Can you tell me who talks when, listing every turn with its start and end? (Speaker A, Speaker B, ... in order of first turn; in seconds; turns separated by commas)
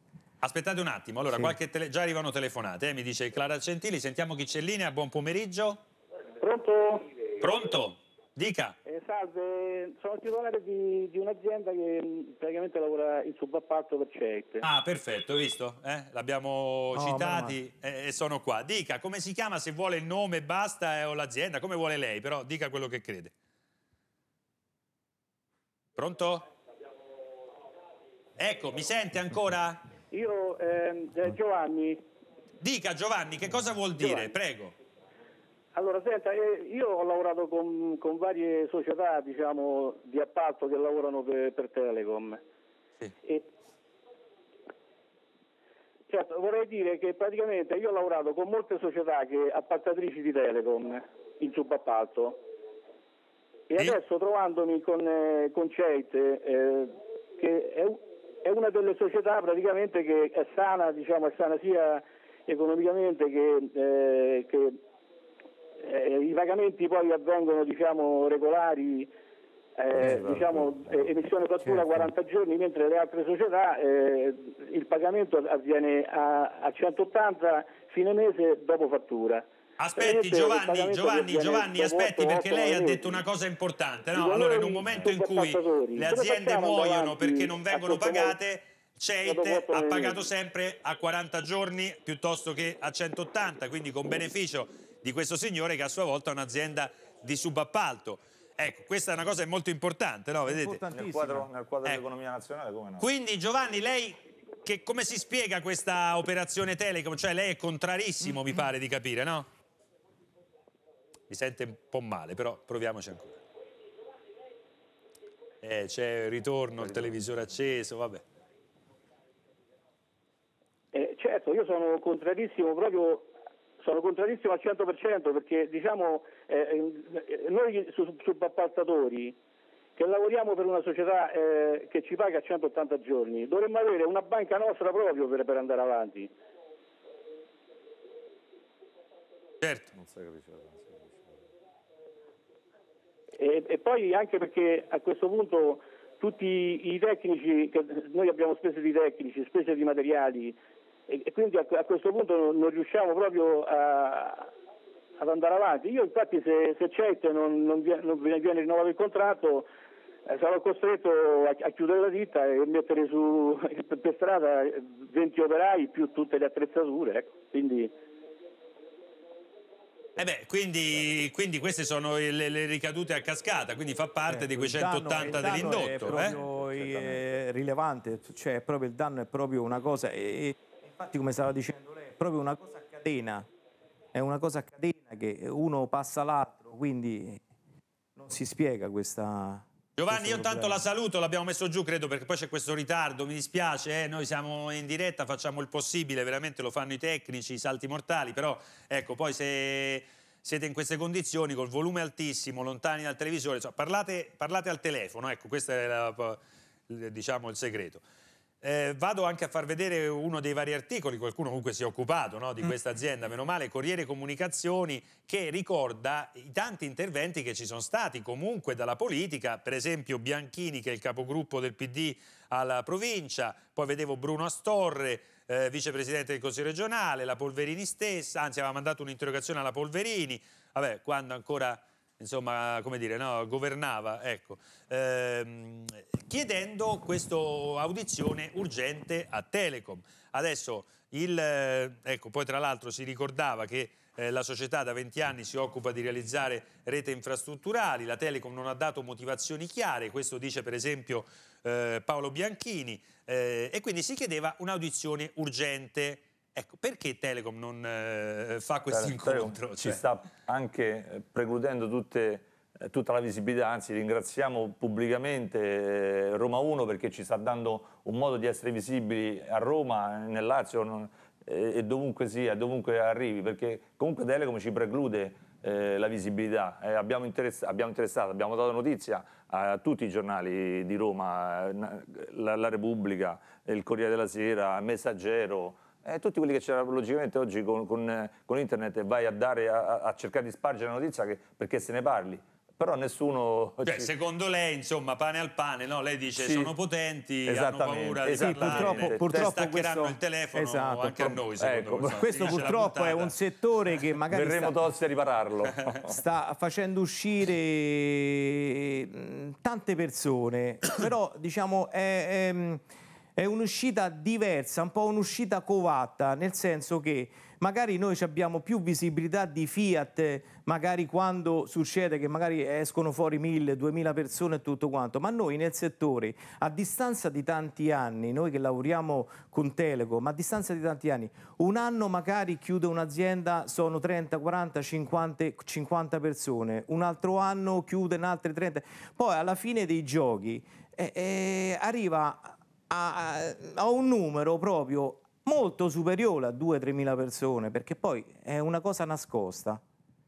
Speaker A: 0.4-5.8, Speaker B: 6.4-7.2, Speaker A: 7.4-8.8, Speaker B: 8.8-14.6, Speaker A: 14.6-23.3, Speaker C: 16.9-17.6, Speaker A: 26.0-26.4, Speaker A: 28.4-29.9, Speaker B: 30.1-32.0, Speaker A: 32.6-34.7, Speaker B: 34.0-34.3, Speaker B: 35.8-42.4, Speaker B: 43.2-43.5, Speaker B: 46.1-52.4, Speaker B: 53.7-64.8, Speaker B: 65.8-69.1, Speaker B: 69.8-79.5, Speaker D: 69.9-71.1, Speaker C: 71.6-72.1, Speaker A: 79.8-100.8, Speaker B: 80.0-83.2, Speaker B: 84.1-88.4, Speaker B: 89.2-90.3, Speaker C: 100.5-101.5, Speaker D: 100.9-103.1, Speaker A: 103.0-109.5, Speaker A: 111.3-113.4, Speaker A: 115.6-118.2, Speaker D: 116.8-117.2, Speaker B: 120.9-123.3, Speaker B: 123.8-129.4, Speaker B: 130.0-136.3, Speaker A: 139.6-139.9, Speaker D: 139.9-141.5, Speaker B: 143.4-150.6, Speaker B: 151.1-154.5, Speaker B: 155.2-159.7, Speaker B: 160.3-167.9, Speaker A: 170.2-176.3, Speaker C: 174.3-183.5, Speaker D: 175.2-177.3, Speaker C: 184.1-187.4, Speaker C: 188.2-190.8, Speaker A: 190.0-208.0, Speaker A: 208.6-260.0, Speaker D: 258.9-294.1, Speaker A: 293.8-303.4, Speaker D: 296.4-296.7, Speaker D: 297.5-299.5, Speaker C: 298.4-301.4, Speaker D: 301.6-302.6, Speaker C: 302.0-304.8, Speaker D: 304.3-306.2, Speaker C: 306.1-312.8, Speaker C: 313.4-349.8